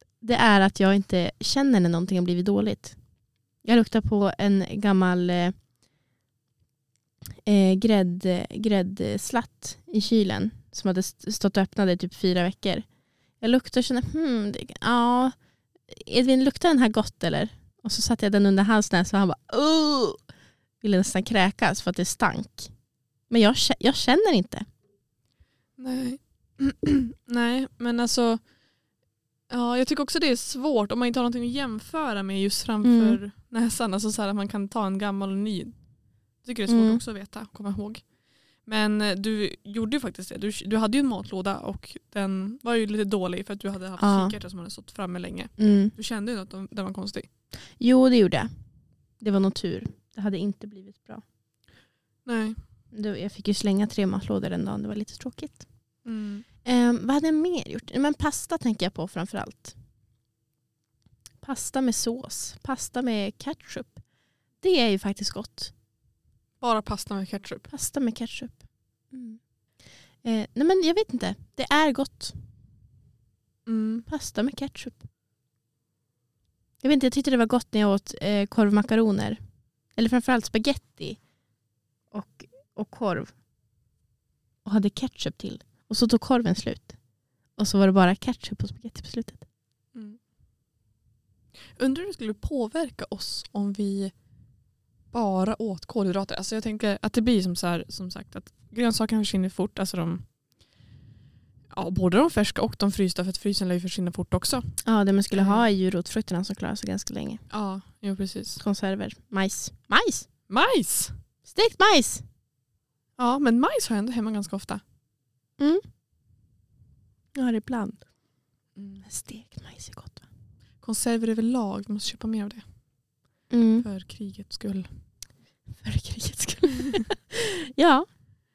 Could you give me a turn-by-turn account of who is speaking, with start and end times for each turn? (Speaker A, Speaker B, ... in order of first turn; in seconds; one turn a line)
Speaker A: 0.2-2.9
Speaker A: 3.6-5.5
Speaker A: 7.4-12.8
Speaker A: 13.4-15.3
Speaker A: 15.9-20.2
Speaker A: 20.8-22.7
Speaker A: 23.3-24.6
Speaker B: 25.8-28.4
Speaker B: 29.5-35.7
Speaker A: 32.8-33.2
Speaker B: 36.4-38.0
Speaker A: 36.7-37.0
Speaker B: 38.6-47.3
Speaker A: 44.0-44.3
Speaker A: 45.6-45.9
Speaker A: 47.8-48.5
Speaker A: 49.2-51.2
Speaker B: 52.2-52.6
Speaker A: 52.9-55.6
Speaker B: 56.0-56.4
Speaker A: 56.6-59.7
Speaker A: 61.4-64.0
Speaker A: 64.6-65.7
Speaker B: 66.6-67.7
Speaker A: 67.7-69.4
Speaker A: 70.2-72.4
Speaker B: 73.7-74.1
Speaker A: 74.1-75.0
Speaker A: 76.8-79.4
Speaker A: 80.0-81.2
Speaker A: 82.1-83.3
Speaker A: 84.6-86.9
Speaker A: 87.6-89.4
Speaker B: 91.8-94.1
Speaker B: 95.1-100.2
Speaker B: 101.7-104.6
Speaker A: 104.8-107.4
Speaker B: 105.3-105.6
Speaker B: 107.5-108.6
Speaker A: 108.6-110.3
Speaker B: 110.5-111.1
Speaker A: 111.5-112.2
Speaker B: 113.2-114.8
Speaker A: 117.3-118.0
Speaker B: 118.8-119.0
Speaker A: 119.0-120.2
Speaker B: 120.8-122.6
Speaker A: 123.5-123.8
Speaker B: 123.8-124.9
Speaker A: 125.8-128.1